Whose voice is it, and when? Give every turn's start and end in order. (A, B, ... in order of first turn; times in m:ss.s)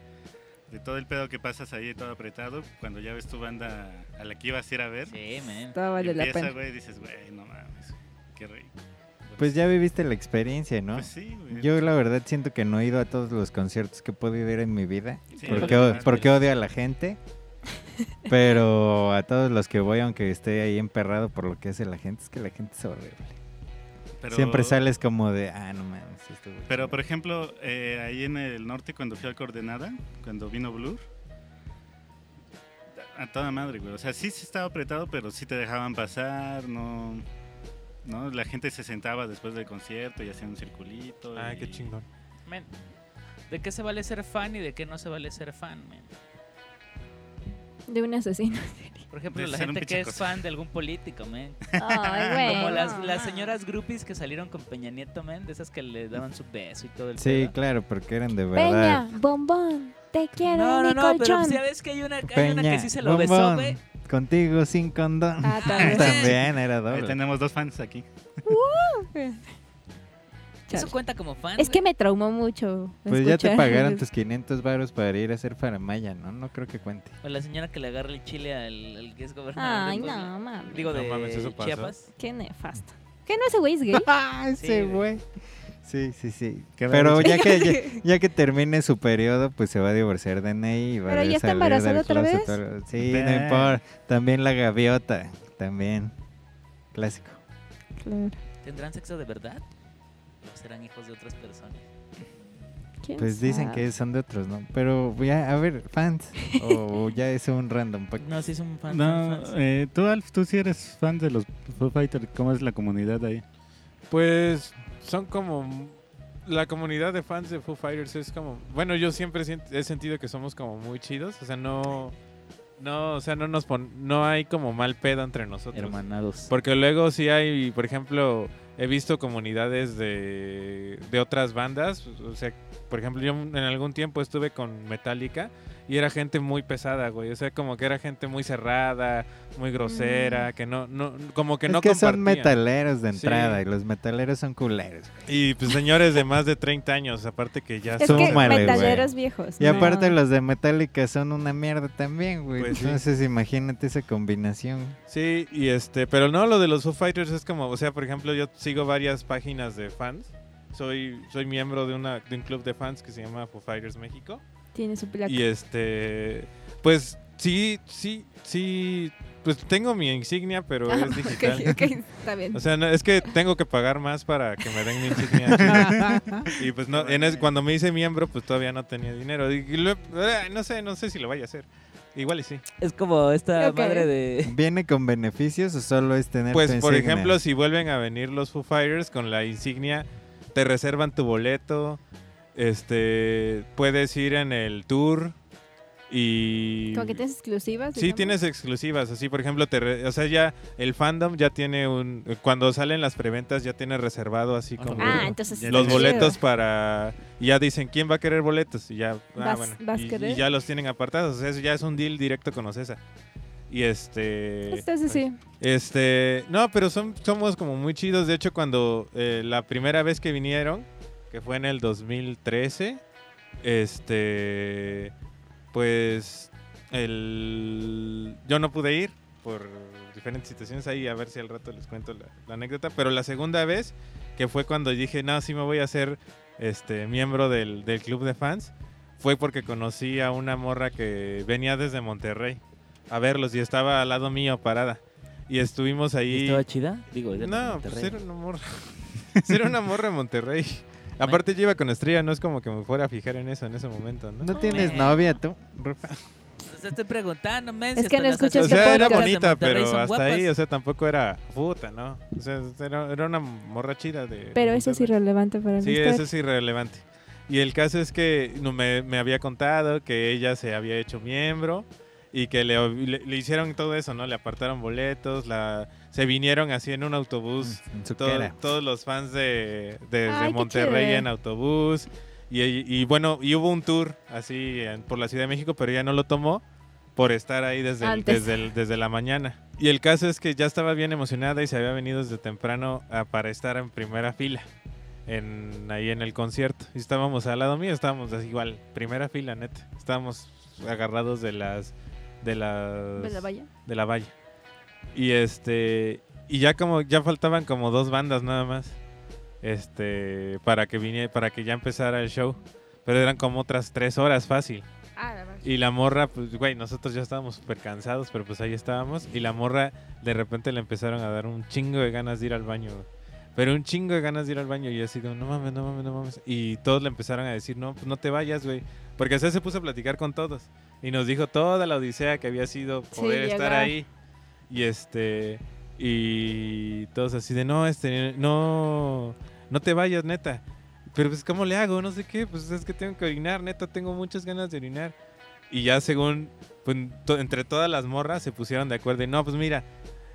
0:00.7-0:05.2 A
0:05.1-0:05.8 B
0:05.7-0:06.6 C
0:06.0-0:09.6 A
0:09.4-0:17.2 D
0:11.0-0:11.7 A
0:15.4-0:16.3 A
0:15.4-0:16.3 B
0:18.3-0:23.4 D
0:24.2-0:24.9 A
0:24.3-0:27.0 D
0:26.7-0:31.0 A
0:33.0-0:37.2 A
0:38.0-0:41.9 A
0:41.4-0:42.1 E
0:42.5-0:42.7 B
0:43.5-0:46.1 B
0:47.9-0:49.0 C
0:49.1-0:51.6 B
0:49.3-0:50.4 A
0:51.7-0:52.6 A
0:51.8-0:53.6 C
0:52.4-0:57.5 B
0:57.2-0:59.1 D
0:58.6-1:01.6 C
1:00.5-1:03.8 B
1:02.3-1:07.2 D
1:05.4-1:06.3 C
1:05.6-1:06.3 B
1:05.8-1:06.2 A
1:06.9-1:08.1 A
1:08.5-1:09.4 C
1:10.7-1:10.9 C
1:10.7-1:11.8 B
1:11.6-1:14.0 C
1:13.1-1:17.2 D
1:17.2-1:22.1 B
1:19.6-1:20.9 C
1:20.9-1:21.9 E
1:22.2-1:24.1 C
1:23.9-1:25.2 D
1:24.6-1:25.0 B
1:25.8-1:36.1 D
1:26.8-1:27.4 A
1:27.2-1:28.0 C
1:31.1-1:32.6 C
1:33.0-1:33.8 A
1:36.9-1:37.4 D
1:38.0-1:38.4 C
1:38.6-1:39.6 B
1:40.4-1:41.8 B
1:43.0-1:43.8 C
1:43.2-1:48.5 D
1:48.2-1:49.5 B
1:48.9-1:53.4 A
1:54.1-2:02.2 E
2:02.8-2:22.6 E
2:05.7-2:06.5 B
2:19.8-2:20.5 C
2:21.7-2:25.3 D
2:23.1-2:23.6 E
2:25.3-2:29.1 E
2:28.0-2:30.2 C
2:28.0-2:35.0 D
2:29.6-2:29.9 E
2:32.6-2:33.0 E
2:35.1-2:44.4 E
2:44.8-2:45.4 C
2:45.3-2:51.9 E
2:50.9-2:52.6 C
2:52.5-2:55.9 E
2:55.6-2:56.1 A
2:55.6-2:56.5 C
2:55.7-2:56.2 D
2:56.6-3:02.6 E
2:56.9-2:57.4 B
3:02.8-3:04.5 B
3:03.6-3:04.1 C
3:04.4-3:07.4 D
3:06.5-3:12.0 E
3:12.6-3:15.4 E
3:16.1-3:17.2 E
3:16.9-3:18.4 C
3:18.0-3:33.0 E
3:24.8-3:26.4 A
3:25.0-3:26.4 C
3:29.4-3:30.4 C
3:33.7-3:43.0 E
3:34.7-3:35.4 C
3:43.6-3:45.1 E
3:45.7-4:06.6 E
4:06.3-4:08.2 B
4:07.4-4:14.5 E
4:14.4-4:16.2 D
4:14.6-4:14.9 C
4:14.6-4:15.4 B
4:16.7-4:20.5 B
4:18.0-4:19.3 C
4:18.6-4:25.1 E
4:24.6-4:26.3 C
4:25.8-4:46.6 E
4:37.6-4:38.6 D
4:40.3-4:41.3 C
4:47.2-4:54.7 E
4:48.0-4:48.6 C
4:55.3-5:04.3 E
5:03.2-5:03.7 C
5:05.1-5:09.0 E
5:09.6-5:14.9 E
5:15.2-5:15.7 C
5:15.6-5:34.1 E
5:33.2-5:33.9 C
5:34.7-5:45.2 E
5:45.7-5:49.8 E